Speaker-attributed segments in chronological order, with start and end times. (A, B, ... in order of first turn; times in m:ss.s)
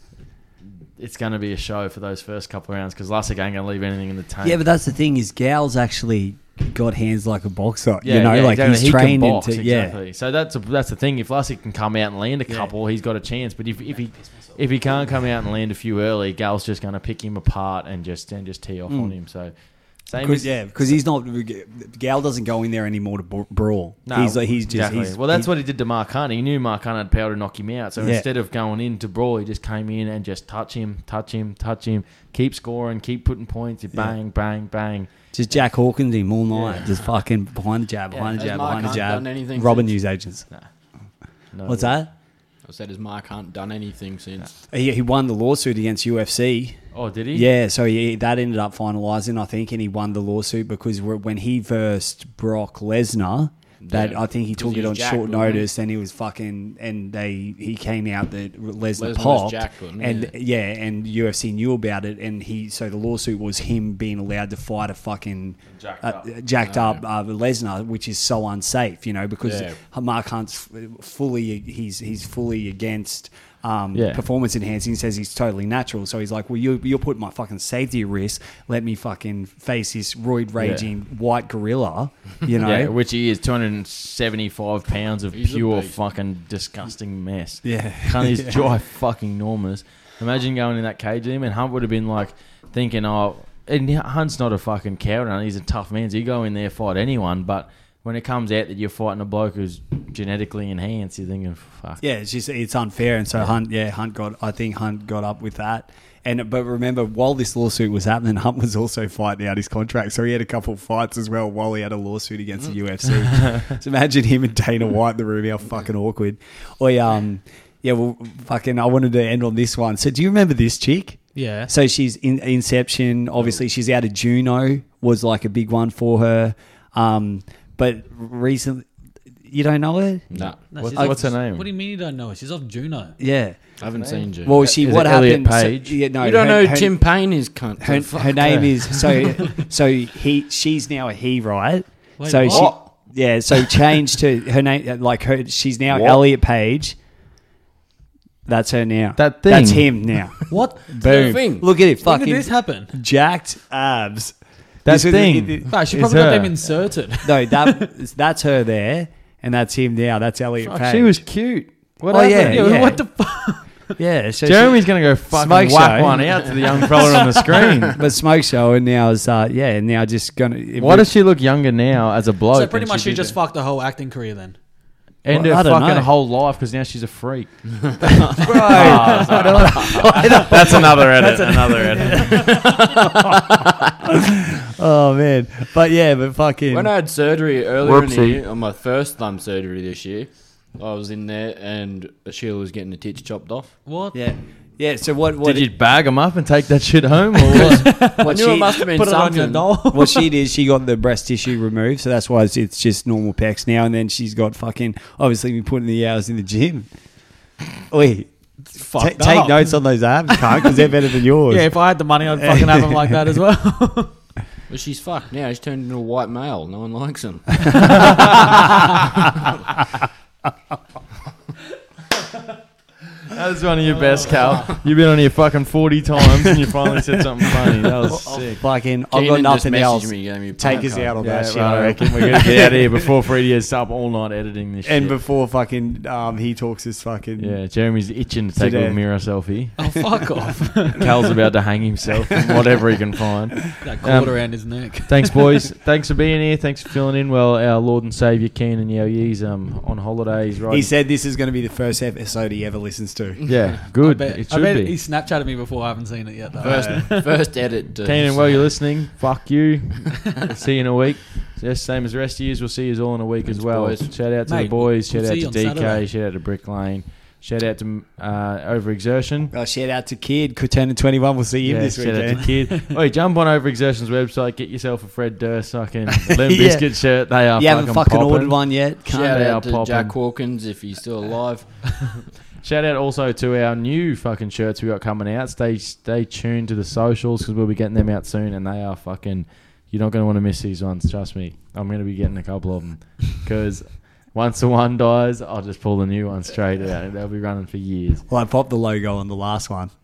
0:01.0-0:04.6 A
0:04.4-0:10.0 B
0:08.0-0:19.5 A
0:18.9-0:19.1 B
0:20.0-0:20.9 A
0:20.2-0:25.5 B
0:24.1-0:35.7 A
0:28.0-0:28.3 B
0:35.3-0:40.5 B
0:38.1-0:38.4 A
0:38.4-0:40.0 C
0:41.5-0:42.0 A
0:41.6-0:42.1 B
0:42.6-0:44.5 C
0:44.7-0:46.8 B
0:46.9-0:47.5 A
0:47.3-1:22.9 B
0:53.8-0:55.7 C
0:59.0-1:00.3 C
1:05.8-1:06.3 A
1:06.6-1:07.0 C
1:09.4-1:09.8 C
1:13.9-1:14.2 A
1:20.6-1:20.9 A
1:22.6-1:42.0 A
1:25.3-1:26.0 C
1:27.6-1:28.6 B
1:42.0-2:08.9 B
2:01.3-2:01.7 D
2:09.4-2:11.2 B
2:10.3-2:10.6 C
2:10.3-2:11.7 A
2:10.7-2:13.2 D
2:13.2-2:13.6 B
2:13.8-2:14.6 C
2:13.9-2:16.0 A
2:14.4-2:17.0 B
2:16.2-2:19.1 C
2:17.8-2:27.0 B
2:22.2-2:22.8 D
2:22.5-2:22.9 C
2:25.9-2:26.2 C
2:28.4-2:35.6 B
2:29.2-2:30.3 A
2:30.5-2:31.2 D
2:30.8-2:31.7 C
2:32.0-2:32.9 D
2:34.8-2:36.5 A
2:35.6-2:37.9 D
2:37.2-2:41.3 B
2:40.6-2:43.0 A
2:42.1-2:43.0 B
2:42.4-2:43.8 D
2:44.0-2:46.5 B
2:44.4-2:48.0 A
2:47.9-2:51.1 B
2:50.8-2:53.4 A
2:52.5-2:54.6 D
2:55.2-3:02.5 A
2:55.3-2:56.1 B
2:58.2-2:58.6 C
2:58.4-3:01.1 B
2:58.8-2:59.2 D
3:00.1-3:02.7 D
3:02.4-3:02.9 C
3:04.6-3:06.9 B
3:06.7-3:13.8 C
3:13.8-3:14.2 D
3:14.1-3:15.7 B
3:15.4-3:17.9 A
3:17.5-3:20.3 D
3:18.0-3:19.7 C
3:18.0-3:18.8 B
3:19.8-3:26.9 B
3:27.9-3:28.3 B
3:28.7-3:30.8 D
3:28.9-3:31.7 B
3:31.4-3:34.2 D
3:32.4-3:33.2 B
3:34.7-3:38.3 C
3:37.8-3:38.9 A
3:43.3-3:48.6 A
3:48.0-3:53.1 B
3:49.1-3:51.2 C
3:51.1-3:55.2 A
3:54.8-3:57.6 B
3:57.4-4:00.0 A
3:58.5-3:59.0 B
3:59.8-4:01.1 D
4:01.0-4:10.9 A
4:03.8-4:05.6 D
4:10.7-4:13.7 B
4:13.4-4:13.7 C
4:13.4-4:15.0 A
4:13.9-4:17.4 D
4:16.6-4:18.7 C
4:16.6-4:17.0 B
4:18.0-4:29.5 A
4:23.4-4:24.1 C
4:24.5-4:26.1 D
4:29.5-4:32.5 B
4:31.6-4:40.2 A
4:36.3-4:39.3 B
4:39.1-4:42.2 C
4:42.6-4:58.2 A
4:58.3-4:59.9 B